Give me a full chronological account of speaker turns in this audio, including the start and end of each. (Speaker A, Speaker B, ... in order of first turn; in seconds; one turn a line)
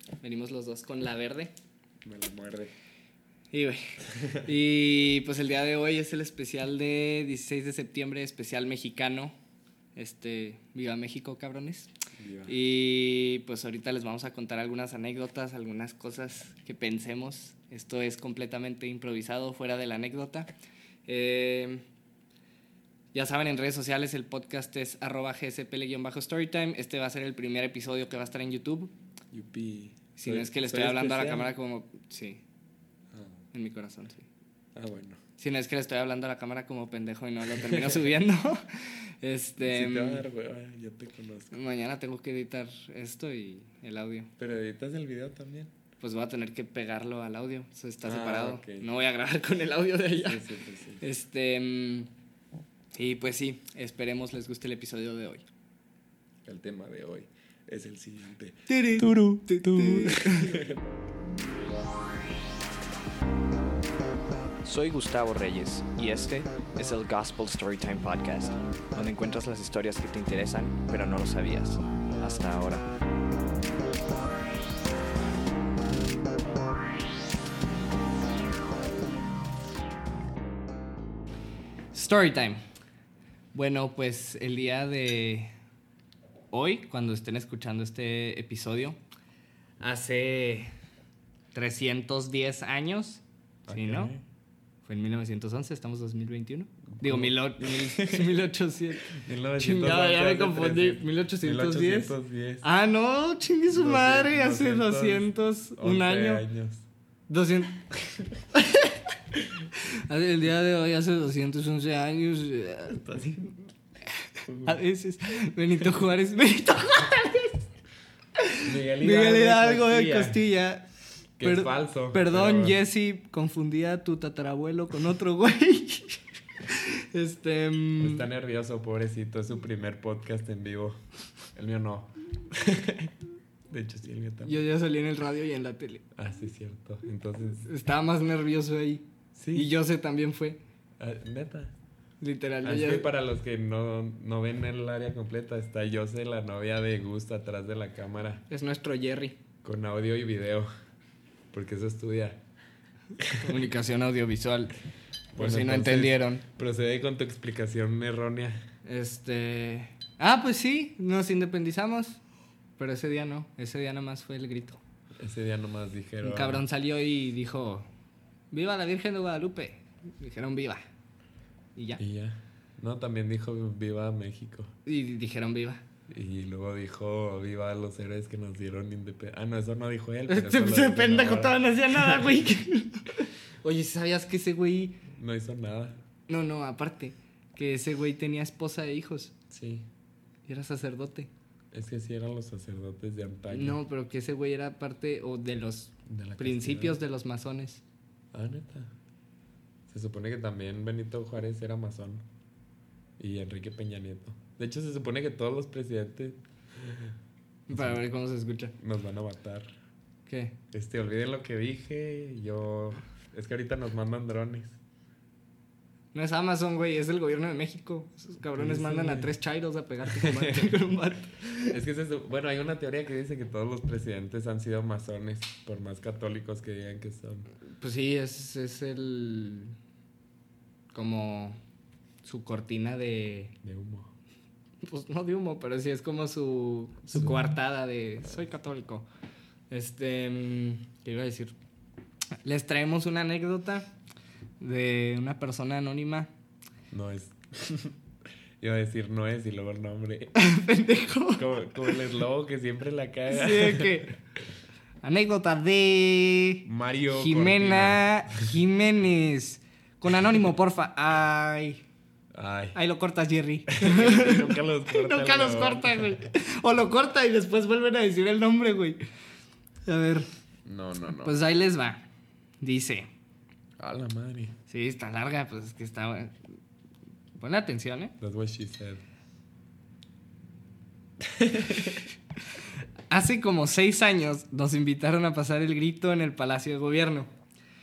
Speaker A: 0.2-1.5
Speaker B: 2.0-2.7
Speaker A: 3.5-3.8
Speaker B: 4.2-4.4
Speaker A: 4.4-9.3
Speaker A: 10.0-11.9
Speaker B: 12.2-12.6
Speaker A: 12.5-20.5
Speaker A: 21.1-21.8
Speaker A: 23.1-28.9
Speaker B: 29.3-31.5
Speaker A: 30.2-32.4
Speaker A: 33.5-34.3
Speaker B: 34.8-35.2
Speaker A: 35.4-40.3
Speaker B: 37.5-38.0
Speaker B: 39.6-41.6
Speaker A: 41.5-44.3
Speaker B: 44.4-45.7
Speaker A: 46.0-50.4
Speaker B: 48.0-48.9
Speaker B: 50.2-51.0
Speaker A: 51.0-52.1
Speaker A: 53.0-55.5
Speaker B: 56.5-60.8
Speaker A: 58.7-60.6
Speaker C: 64.6-72.9
Speaker A: 81.9-82.6
Speaker A: 83.5-85.5
Speaker A: 86.5-89.0
Speaker A: 89.8-90.7
Speaker A: 91.5-94.1
Speaker B: 93.7-94.2
Speaker A: 94.8-106.5
Speaker B: 97.0-98.4
Speaker B: 99.1-102.7
Speaker B: 103.7-106.9
Speaker A: 107.3-107.9
Speaker A: 108.5-109.0
Speaker A: 110.1-113.0
Speaker B: 113.0-113.5
Speaker B: 114.5-114.8
Speaker A: 114.6-117.7
Speaker A: 118.4-120.9
Speaker B: 118.6-120.4
Speaker B: 121.4-122.8
Speaker A: 121.4-128.3
Speaker B: 128.0-131.0
Speaker B: 131.5-133.1
Speaker B: 133.7-134.6
Speaker A: 134.4-136.1
Speaker B: 136.2-137.7
Speaker A: 137.7-140.6
Speaker B: 139.3-139.7
Speaker B: 141.0-141.8
Speaker A: 142.2-143.1
Speaker B: 142.6-148.4
Speaker A: 148.5-149.4
Speaker B: 149.6-150.7
Speaker B: 151.5-152.4
Speaker B: 153.2-153.6
Speaker A: 153.4-154.7
Speaker A: 155.4-156.4
Speaker B: 155.4-158.6
Speaker A: 158.8-162.2
Speaker A: 162.8-164.8
Speaker B: 165.2-166.7
Speaker A: 166.2-167.9
Speaker A: 168.5-170.8
Speaker A: 171.8-172.0
Speaker B: 172.0-174.7
Speaker A: 174.9-175.8
Speaker B: 176.1-182.4
Speaker A: 180.3-185.0
Speaker B: 185.1-186.0
Speaker A: 186.3-189.3
Speaker B: 189.5-189.9
Speaker A: 190.5-191.3
Speaker B: 191.7-193.8
Speaker A: 193.5-197.8
Speaker B: 196.1-197.0
Speaker B: 198.3-198.9
Speaker B: 199.9-202.2
Speaker B: 203.2-207.2
Speaker A: 207.7-208.7
Speaker B: 207.7-208.0
Speaker B: 208.8-209.7
Speaker A: 210.3-210.6
Speaker B: 210.7-214.8
Speaker A: 216.1-221.8
Speaker B: 218.6-219.3
Speaker B: 220.1-220.8
Speaker B: 221.7-227.5
Speaker A: 227.8-229.8
Speaker A: 230.9-231.6
Speaker A: 232.2-233.6
Speaker B: 233.6-234.1
Speaker A: 234.8-239.1
Speaker B: 237.1-237.4
Speaker A: 239.7-241.5
Speaker A: 242.4-243.9
Speaker A: 244.6-246.3
Speaker B: 246.9-248.0
Speaker B: 248.6-250.4
Speaker A: 250.4-251.9
Speaker B: 251.4-254.1
Speaker A: 253.3-254.1
Speaker A: 255.0-261.8
Speaker B: 256.6-258.4
Speaker B: 262.3-262.8
Speaker A: 262.8-269.0
Speaker B: 263.7-266.2
Speaker A: 269.9-270.3
Speaker B: 270.7-271.4
Speaker A: 271.2-272.0
Speaker A: 272.6-273.1
Speaker B: 273.8-274.6
Speaker A: 274.7-276.4
Speaker A: 277.4-278.1
Speaker B: 278.2-279.0
Speaker B: 281.2-282.0
Speaker A: 283.1-287.3